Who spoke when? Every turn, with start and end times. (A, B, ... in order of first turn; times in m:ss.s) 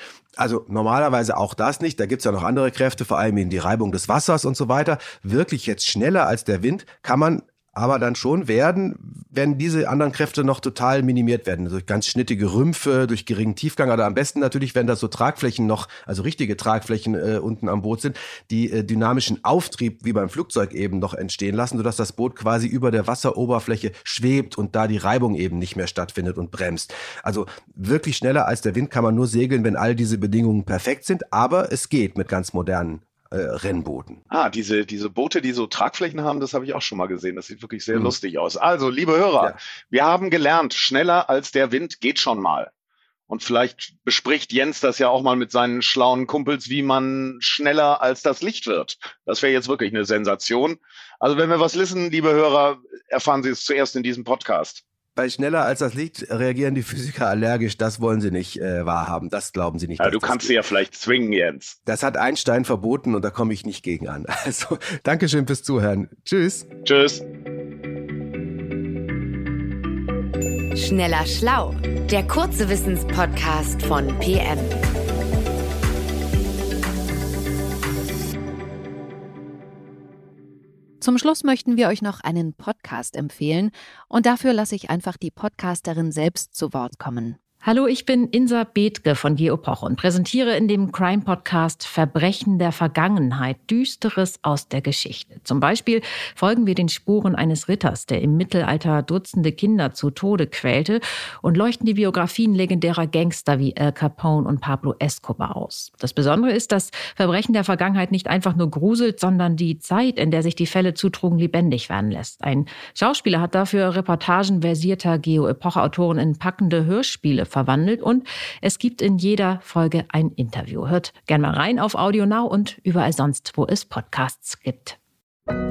0:00.4-0:34.2 A
0:34.3-0:42.7 B
0:43.3-0:54.8 B
0:55.2-1:00.5 A
1:00.0-1:01.8 B
1:01.8-1:06.7 A
1:06.8-1:07.2 B
1:10.7-1:14.8 C
1:21.0-1:27.4 D
1:27.6-2:05.0 E